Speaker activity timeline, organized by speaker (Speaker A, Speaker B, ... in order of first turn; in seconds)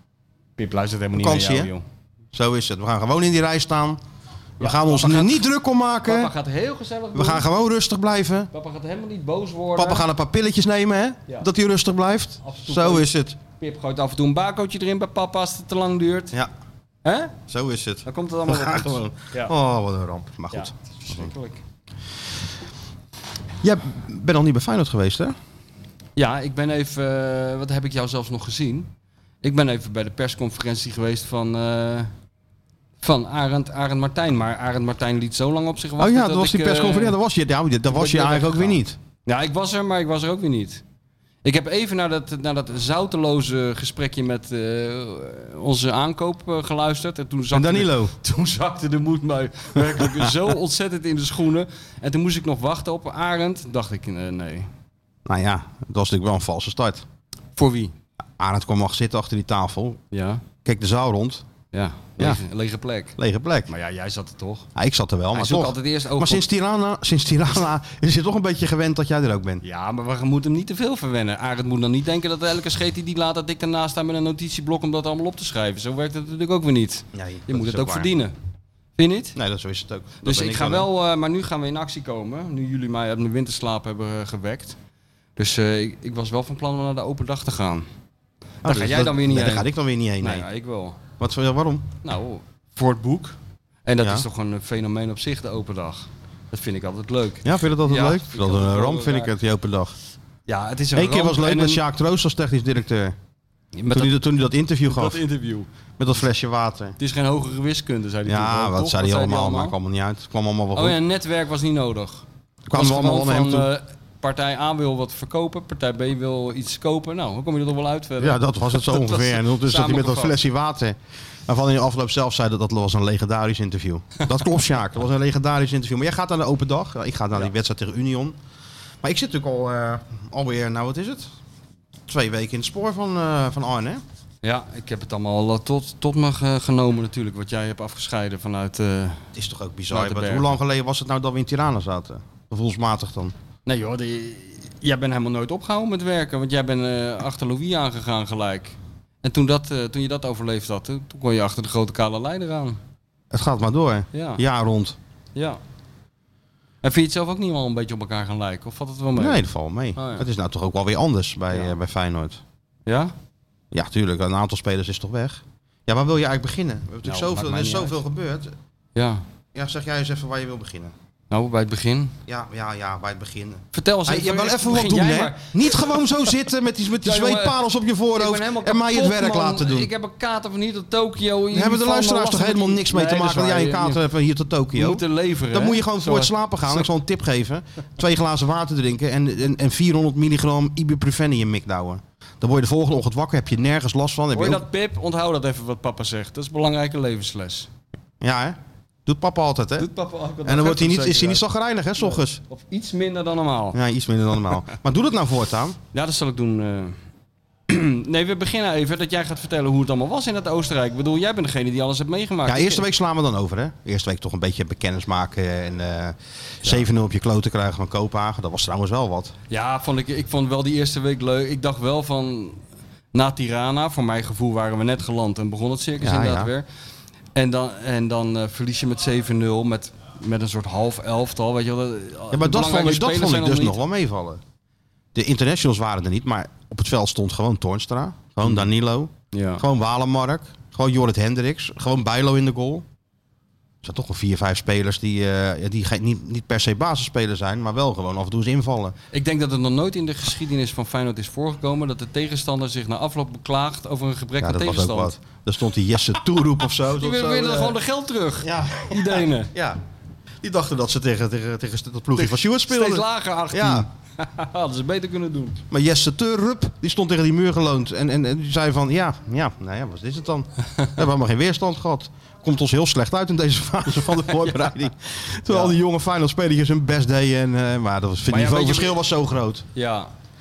Speaker A: 0.6-1.8, 4.6-5.5, 6.0-7.5, 8.5-10.1, 12.4-16.4, 17.0-17.4, 18.1-19.5, 20.5-21.6, 26.2-28.9, 29.4-32.1, 33.0-37.2, 37.9-40.8, 41.4-54.7, 57.6-57.9, 60.1-60.4, 61.7-63.2, 63.7-64.7, 65.3-66.5, 69.6-78.3, 79.0-79.4, 80.2-84.8, 85.4-87.9, 88.6-89.7, 90.2-91.0, 92.0-99.3, 100.5-101.8, 103.8-104.2, 104.9-105.7, 107.0-109.8, 110.8-120.4, 134.4-139.2, 139.9-140.6, 143.7-152.8, 154.1-154.4, 155.3-155.6, 156.8-159.4, 160.0-160.3, 162.9-163.1, 167.0-167.9, 168.9-169.2, 171.3-172.2, 173.7-176.1, 177.0-177.6, 178.1-184.0, 184.7-186.9, 194.3-197.7, 199.8-201.4, 202.0-203.8, 205.9-207.0, 207.7-212.8, 219.5-222.6, 223.1-226.7, 227.3-233.8, 238.4-238.7, 239.3-239.6, 249.1-255.2, 256.9-259.5, 262.2-265.6, 274.3-274.6, 275.5-275.8, 278.3-279.0, 279.8-280.1
Speaker B: 1.1-1.7, 2.3-4.0, 4.6-6.3, 7.1-8.5, 9.8-13.4, 17.5-21.3, 23.6-25.4, 36.0-39.0, 47.5-48.1, 50.0-50.3, 55.3-57.0, 58.4-60.0, 60.6-61.4, 63.2-63.7, 64.8-69.6, 77.1-78.1, 79.3-80.9, 88.6-90.5, 91.2-91.9, 94.0-94.3, 97.4-100.0, 100.9-103.2, 103.9-105.2, 106.0-107.0, 108.3-111.0, 112.7-113.7, 118.2-128.4, 129.0-131.3, 132.1-134.0, 139.3-143.3, 153.3-155.0, 159.2-162.4, 163.7-168.6, 169.5-170.9, 172.3-179.9, 181.5-194.6, 198.2-199.9, 200.4-202.4, 203.7-205.8, 212.5-219.3, 226.0-226.5, 232.3-234.4, 235.1-242.8, 243.8-248.9, 254.4-257.8, 258.4-259.8, 260.4-263.9, 265.7-279.6